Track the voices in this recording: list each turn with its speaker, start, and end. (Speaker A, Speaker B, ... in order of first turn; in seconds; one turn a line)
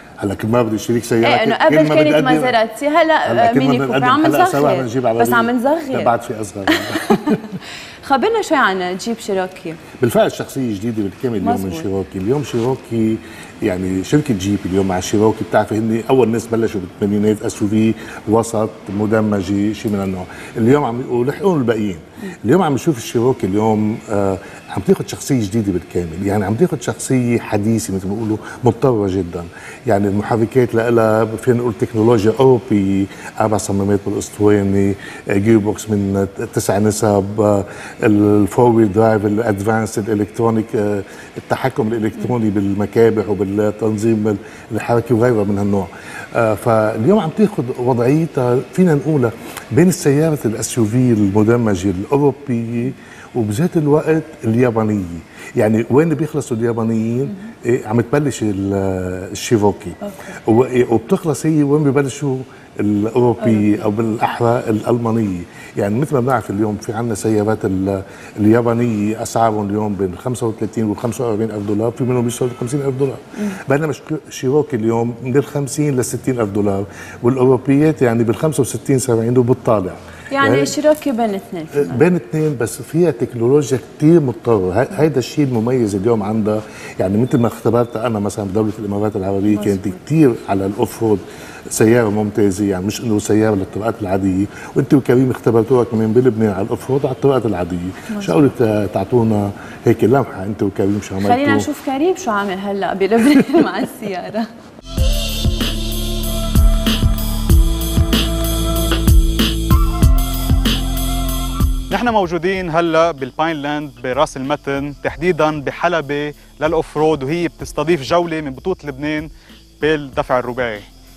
Speaker A: 0.2-2.6
Speaker B: 1.2-9.8
Speaker A: 3.3-7.5
Speaker A: 10.0-80.7
Speaker B: 11.4-11.9
Speaker B: 63.4-63.8
Speaker B: 80.3-82.0
Speaker A: 81.8-101.7
Speaker B: 89.5-89.9
Speaker B: 98.1-98.5
Speaker B: 101.2-104.5
Speaker C: 111.9-120.9